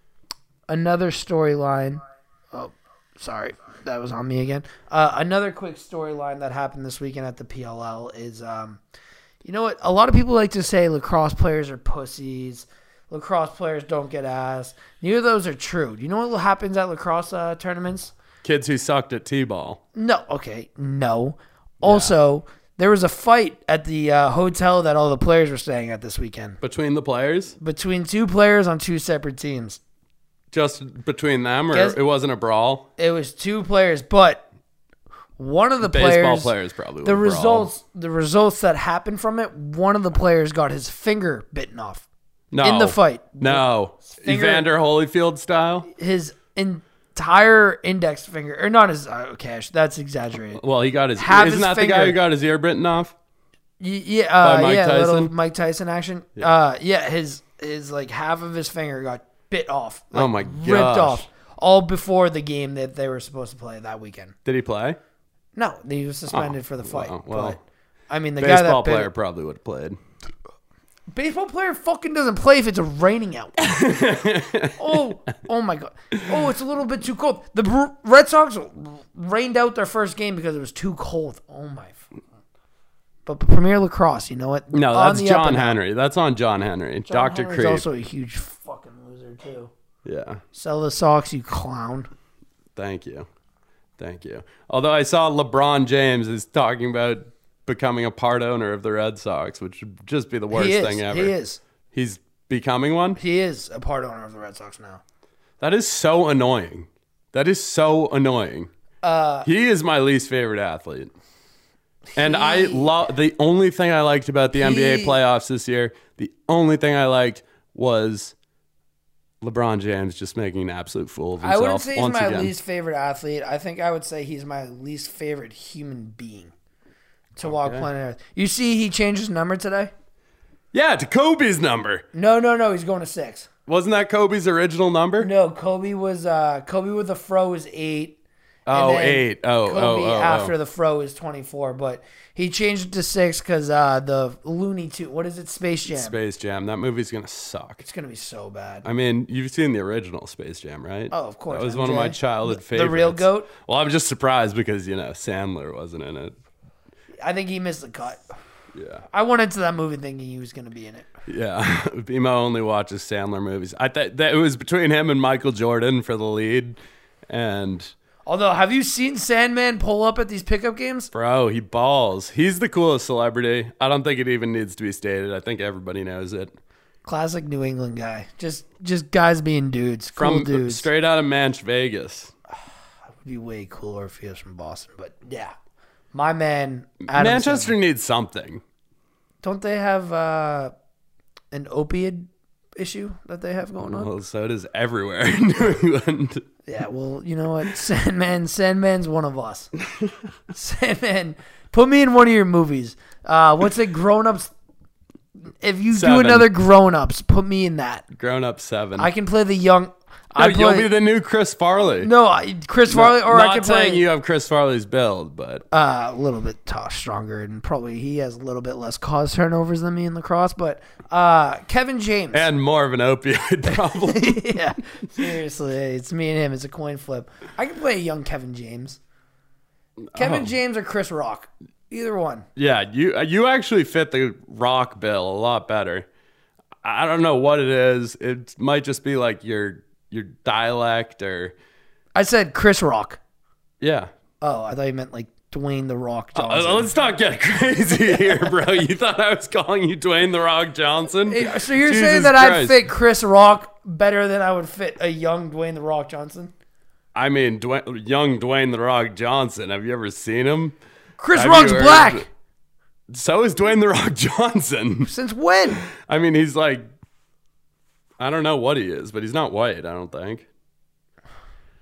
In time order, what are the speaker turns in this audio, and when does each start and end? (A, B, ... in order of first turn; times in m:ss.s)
0:00.7-0:08.8 A
0:09.4-0:18.1 A
0:18.4-0:19.8 B
0:20.0-0:26.6 A
0:21.8-0:22.1 B
0:26.6-0:27.6 B
0:27.6-0:29.8 A
0:30.5-0:32.9 B
0:31.7-0:32.0 A
0:33.0-0:34.4 A
0:35.4-0:42.1 A
0:35.8-0:37.7 B
0:42.5-0:45.9 B
0:42.6-0:44.7 A
0:45.9-0:50.6 A
0:50.6-0:53.1 B
0:51.2-0:52.2 A
0:53.8-1:04.4 A
0:54.4-0:55.3 B
1:00.1-1:01.2 B
1:04.4-1:05.0 B
1:05.6-1:07.6 A
1:06.3-1:07.6 B
1:08.1-1:09.1 A
1:08.4-1:10.0 B
1:11.1-1:13.8 A
1:13.6-1:15.1 B
1:14.8-1:22.1 A
1:23.3-1:25.8 A
1:24.7-1:27.8 B
1:27.1-1:29.7 A
1:30.0-1:30.4 B
1:30.5-1:32.1 A
1:32.8-1:33.3 B
1:34.0-1:41.4 B
1:40.5-1:41.6 A
1:41.9-1:43.2 B
1:43.2-1:45.0 A
1:45.6-1:48.7 B
1:49.0-1:49.5 A
1:49.4-1:51.1 B
1:52.1-1:52.9 A
1:52.2-1:58.4 B
1:54.6-1:55.2 A
1:59.4-2:02.5 B
2:01.4-2:06.5 A
2:07.4-2:09.9 A
2:07.4-2:07.9 B
2:10.7-2:12.0 B
2:12.1-2:13.5 A
2:13.7-2:15.3 B
2:15.2-2:26.2 A
2:18.7-2:20.5 B
2:25.9-2:27.8 B
2:27.8-2:28.8 A
2:28.8-2:36.4 B
2:31.1-2:33.5 A
2:37.2-2:38.2 A
2:38.7-2:39.1 B
2:39.1-2:41.1 A
2:41.3-2:47.9 B
2:48.3-2:51.1 A
2:51.1-2:56.6 B
2:57.0-3:00.9 A
3:00.1-3:02.3 B
3:03.1-3:05.6 A
3:06.1-3:07.7 A
3:07.0-3:08.6 B
3:09.4-3:10.7 A
3:11.5-3:14.1 A
3:13.8-3:16.4 B
3:16.7-3:19.7 A
3:20.5-3:24.5 A
3:25.5-3:28.1 A
3:25.9-3:26.5 B
3:28.1-3:29.1 B
3:29.0-3:30.9 A
3:30.4-3:32.1 B
3:32.0-3:34.0 A
3:32.9-3:35.6 B
3:35.7-3:42.5 A
3:42.3-3:44.6 B
3:43.7-3:49.0 A
3:50.1-3:50.5 B
3:50.2-3:52.5 A
3:52.6-3:56.1 B
3:56.8-4:01.6 B
4:02.1-4:03.2 A
4:03.8-4:04.1 B
4:04.4-4:06.9 A
4:06.4-4:12.8 B
4:08.0-4:08.6 A
4:11.2-4:16.5 A
4:17.1-4:20.8 B
4:21.2-4:22.3 A
4:21.3-4:22.3 B
4:23.1-4:25.1 B
4:25.1-4:25.8 A
4:25.9-4:26.9 B
4:28.2-4:30.5 B